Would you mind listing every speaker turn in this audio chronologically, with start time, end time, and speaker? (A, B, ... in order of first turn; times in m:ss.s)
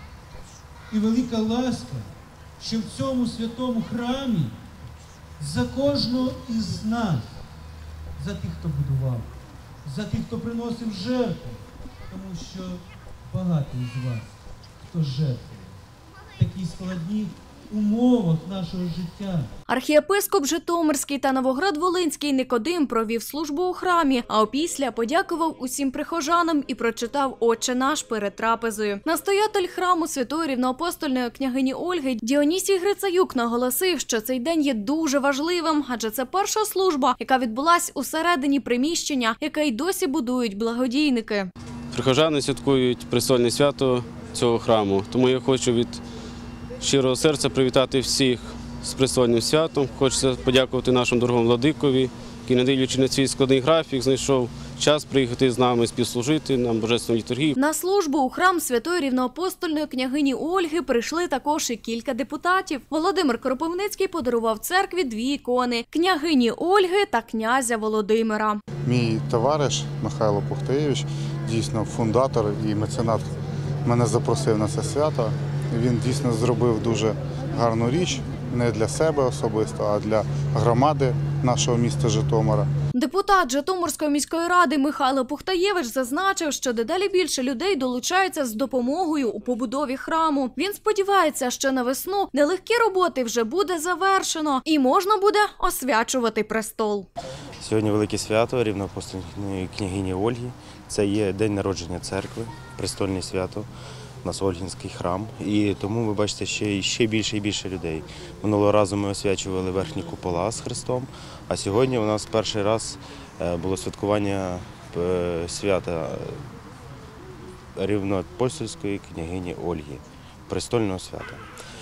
0:00.9-0:02.1 A
0:02.6-0:04.6 A
0:05.4-0:07.3 A
0:08.2-0:09.3 A
0:09.8-0:14.3 A
0:14.8-0:15.8 A
0:16.4-0:19.5 A
0:19.7-0:41.5 B
0:41.9-0:46.0 C
0:46.8-0:57.5 C
0:57.6-1:08.6 B
1:08.8-1:13.3 D
1:13.8-1:22.7 D
1:22.9-1:37.1 B
1:37.6-1:43.7 E
1:44.2-1:56.4 E
1:57.8-2:01.4 E